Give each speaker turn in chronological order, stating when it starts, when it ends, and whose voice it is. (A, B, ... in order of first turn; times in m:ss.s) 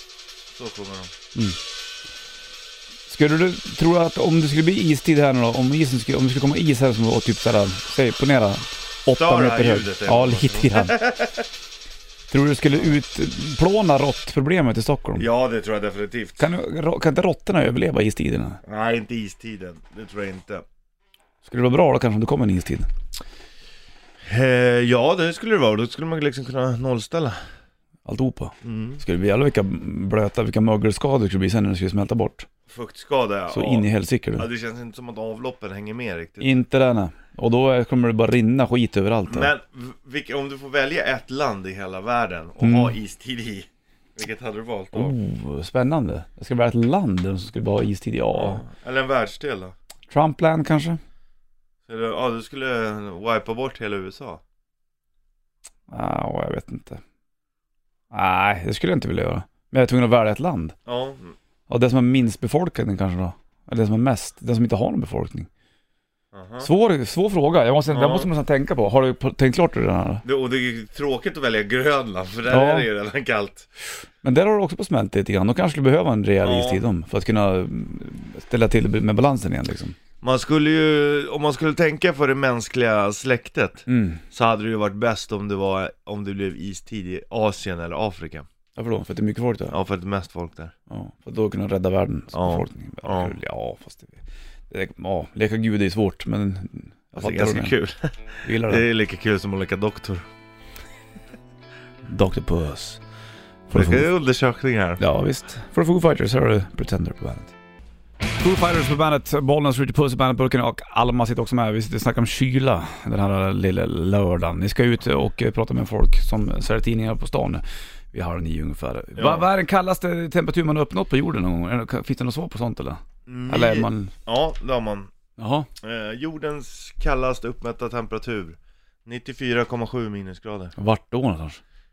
0:00.5-0:01.1 A
0:03.1-0:10.9 B
0:09.2-0:11.4 A
0:12.3-0:15.2 B
0:15.2-0:16.4 A
0:16.4-0:18.6 B
0:18.6-0:20.6 A
0:21.4-0:22.9 B
0:24.2-0:27.4 A
0:28.0-0:32.5 B
0:28.6-0:29.0 A
0:32.7-0:33.8 A
0:33.5-0:34.4 B
0:34.4-0:36.6 A
0:36.4-0:39.5 B
0:39.3-0:45.2 A
0:42.6-0:42.9 B
0:44.9-0:48.6 B
0:48.3-0:49.7 A
0:50.1-0:51.0 B
0:51.8-0:54.4 A
0:55.9-0:57.0 B
0:58.1-1:00.8 B
1:00.8-1:01.4 A
1:01.7-1:05.5 B
1:06.3-1:06.7 A
1:06.6-1:10.2 B
1:07.9-1:08.3 A
1:10.2-1:13.7 A
1:12.5-1:12.9 B
1:14.2-1:20.0 B
1:16.4-1:16.8 A
1:20.2-1:28.5 A
1:23.9-1:24.2 B
1:28.8-1:29.8 B
1:29.7-1:30.7 A
1:30.9-1:37.7 B
1:32.3-1:33.4 A
1:37.2-1:40.2 A
1:38.4-1:38.9 B
1:42.1-1:43.0 B
1:43.7-1:44.1 B
1:43.7-1:45.0 A
1:45.0-1:47.5 B
1:48.4-2:04.1 B
1:59.2-1:59.4 A
2:03.2-2:05.1 A
2:05.4-2:05.7 B
2:05.8-2:10.7 A
2:10.8-2:11.6 B